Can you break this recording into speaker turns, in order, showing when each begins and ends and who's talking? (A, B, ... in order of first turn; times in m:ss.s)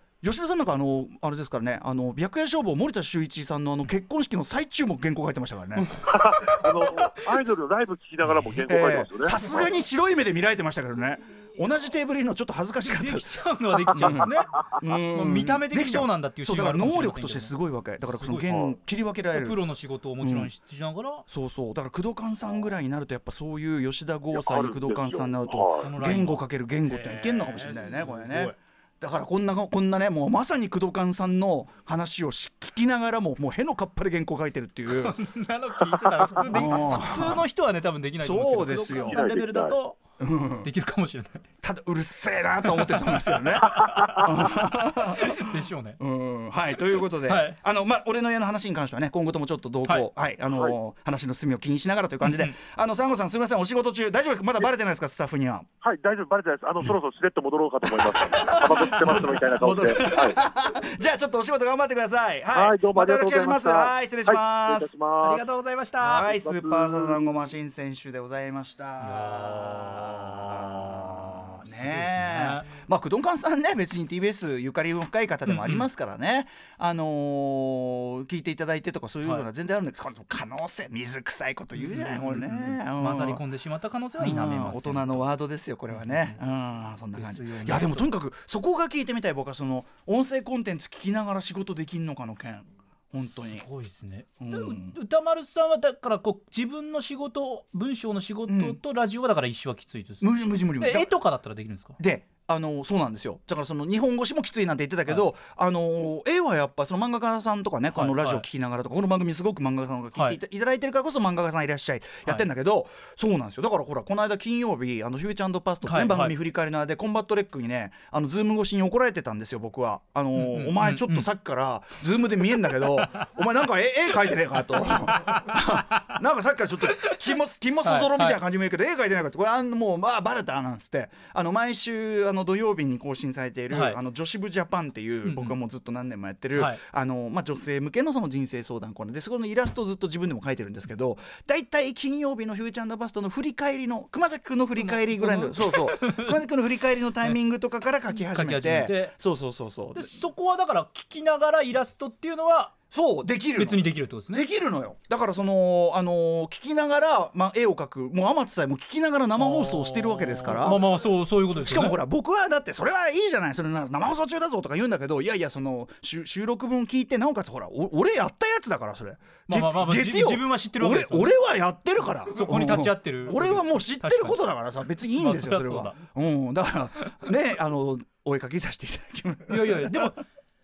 0:00.2-0:05.9 A
0:05.8-0:07.2 B
0:06.1-0:09.7 C
0:08.2-0:08.6 B
0:08.7-0:19.6 A
0:12.8-0:18.6 B
0:18.5-0:18.7 C
0:19.3-0:21.2 B
0:20.2-0:20.5 A
0:21.3-0:35.2 A
0:24.3-0:25.9 C
0:25.8-0:28.6 B
0:34.9-0:40.0 B
0:36.5-0:37.4 A
0:38.2-0:39.2 A
0:38.9-0:39.8 C
0:40.2-0:40.7 A
0:40.6-0:41.4 B
0:41.6-0:55.6 A
0:42.6-0:46.0 B
0:43.7-0:44.1 C
0:47.2-0:47.6 B
0:50.5-0:50.7 C
0:52.2-0:52.5 B
0:55.8-1:00.4 C
0:57.8-1:05.0 A
1:02.5-1:05.4 C
1:05.2-1:06.3 B
1:06.0-1:23.4 A
1:06.2-1:07.3 C
1:09.0-1:10.3 B
1:11.6-1:12.7 B
1:15.4-1:15.9 B
1:19.2-1:19.5 B
1:21.7-1:25.3 B
1:24.2-1:33.7 A
1:25.9-1:26.4 B
1:27.1-1:28.1 B
1:33.2-1:42.0 B
1:34.4-1:35.0 A
1:38.5-1:38.8 A
1:40.2-1:41.2 A
1:42.0-2:30.2 A
1:47.9-1:48.4 B
1:55.8-1:56.3 B
2:00.3-2:01.3 B
2:03.0-2:03.2 B
2:05.4-2:06.0 B
2:07.8-2:08.4 B
2:13.7-2:14.0 B
2:15.2-2:15.6 B
2:16.5-2:16.8 B
2:24.7-2:26.4 B
2:28.1-2:29.1 B
2:29.9-2:32.7 B
2:32.9-2:40.9 A
2:33.6-2:34.4 B
2:39.3-2:42.0 B
2:41.6-3:00.1 A
2:49.5-2:51.3 B
2:52.2-2:54.4 B
2:55.2-2:56.0 B
2:59.5-3:00.2 B